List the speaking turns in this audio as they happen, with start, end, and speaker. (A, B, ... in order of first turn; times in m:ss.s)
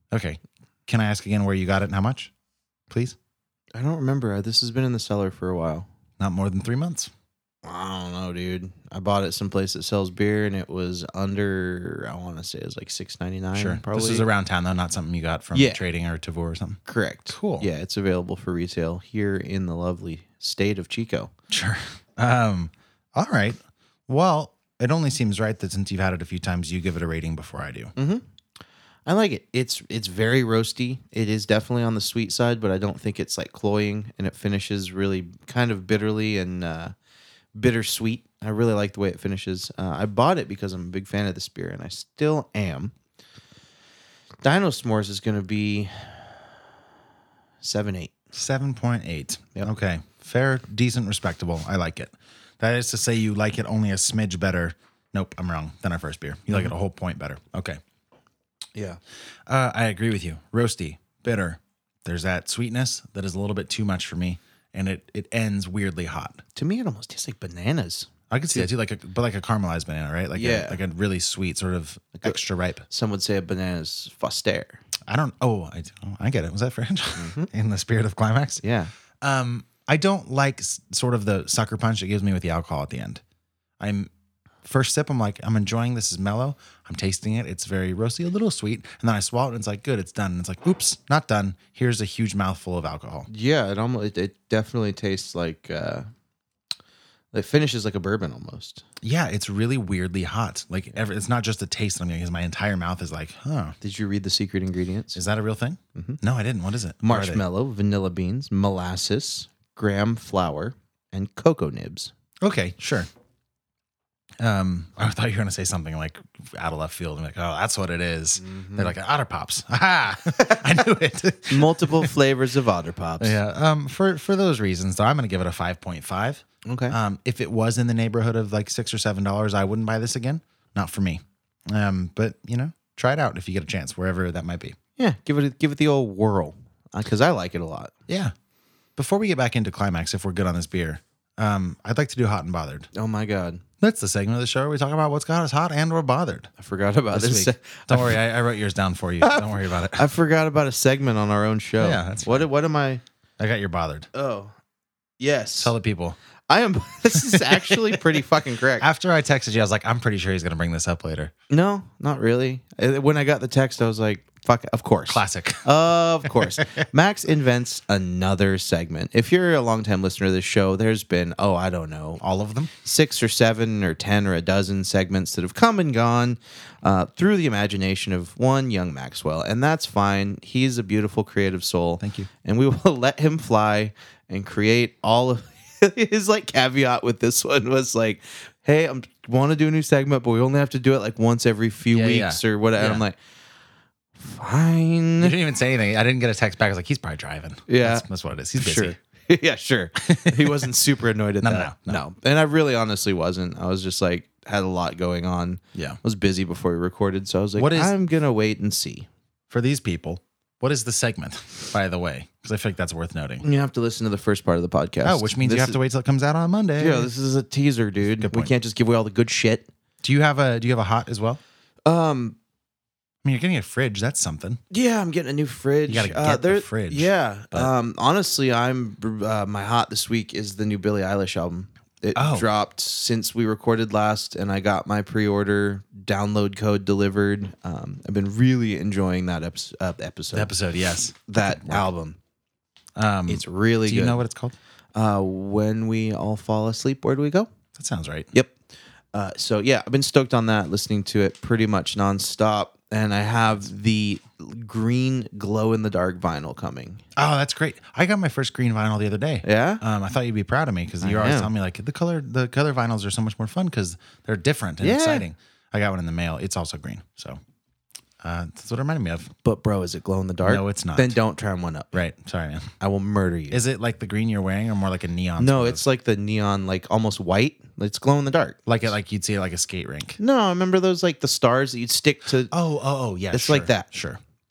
0:00.1-0:02.3 A
0:02.9-0:03.2 A
0:03.7-0:05.9 B
0:06.2-0:07.1 A
0:07.6-0:14.3 B
0:13.5-0:17.7 A
0:15.5-0:15.8 B
0:16.9-0:21.3 B
0:21.5-0:27.9 A
0:28.0-0:28.2 B
0:29.0-0:36.9 B
0:37.5-0:42.9 B
0:44.4-0:46.5 B
0:47.6-0:48.1 B
0:48.3-0:57.8 A
0:59.5-1:06.4 A
1:06.5-1:08.7 B
1:08.3-1:12.8 A
1:10.3-1:10.8 B
1:12.9-1:14.8 B
1:15.1-1:18.6 A
1:17.2-1:17.5 B
1:18.6-1:18.9 B
1:19.2-1:23.2 A
1:23.8-1:24.1 A
1:24.6-1:33.3 A
1:33.3-1:36.1 B
1:37.3-1:38.8 B
1:39.0-1:43.8 A
1:43.8-1:45.2 B
1:45.1-1:47.4 A
1:47.0-1:52.1 B
1:52.4-1:53.1 A
1:54.4-2:02.1 A
1:58.4-1:58.9 B
2:01.5-2:03.4 B
2:03.2-2:14.8 A
2:06.6-2:07.0 B
2:15.0-2:17.9 B
2:18.1-2:18.3 A
2:19.0-2:22.9 A
2:22.9-2:23.6 B
2:23.8-2:26.5 A
2:26.6-2:28.2 B
2:27.1-2:30.1 A
2:29.2-2:33.0 B
2:31.8-2:32.5 A
2:33.4-2:34.1 A
2:34.1-2:34.5 B
2:35.2-2:35.7 B
2:35.6-2:36.2 A
2:36.5-2:38.8 B
2:37.2-2:38.0 A
2:38.8-2:41.3 A
2:41.5-2:52.2 B
2:45.1-2:45.6 A
2:52.2-2:52.7 A
2:52.8-3:13.2 B
3:02.0-3:02.3 A
3:11.9-3:13.0 A
3:14.2-3:15.4 B
3:15.2-3:19.0 A
3:17.7-3:18.0 B
3:18.6-3:29.1 B
3:20.0-3:20.7 A
3:21.4-3:22.0 A
3:27.6-3:27.9 A
3:29.5-3:33.4 A
3:33.4-3:35.8 B
3:35.0-3:37.1 A
3:36.8-3:39.7 B
3:38.2-3:38.5 A
3:40.0-3:41.4 A
3:41.8-3:42.4 B
3:43.2-3:44.6 A
3:44.7-4:00.5 B
3:45.9-3:47.7 A
3:52.1-3:52.5 A
4:00.3-4:01.9 A
4:01.3-4:02.2 B
4:03.0-4:04.6 A
4:03.3-4:04.2 B
4:04.9-4:07.5 B
4:07.8-4:08.3 A
4:09.1-4:17.0 B
4:17.1-4:27.4 A
4:19.4-4:19.8 B
4:21.0-4:21.5 B
4:24.8-4:25.3 B
4:28.2-4:29.3 A
4:29.4-4:32.0 B
4:30.4-4:31.2 A
4:31.9-4:32.7 A
4:32.8-4:33.6 B
4:33.5-4:35.8 A
4:35.4-4:38.6 B
4:38.6-4:40.2 A
4:40.2-4:42.5 B
4:42.5-4:44.2 A
4:43.3-4:43.9 B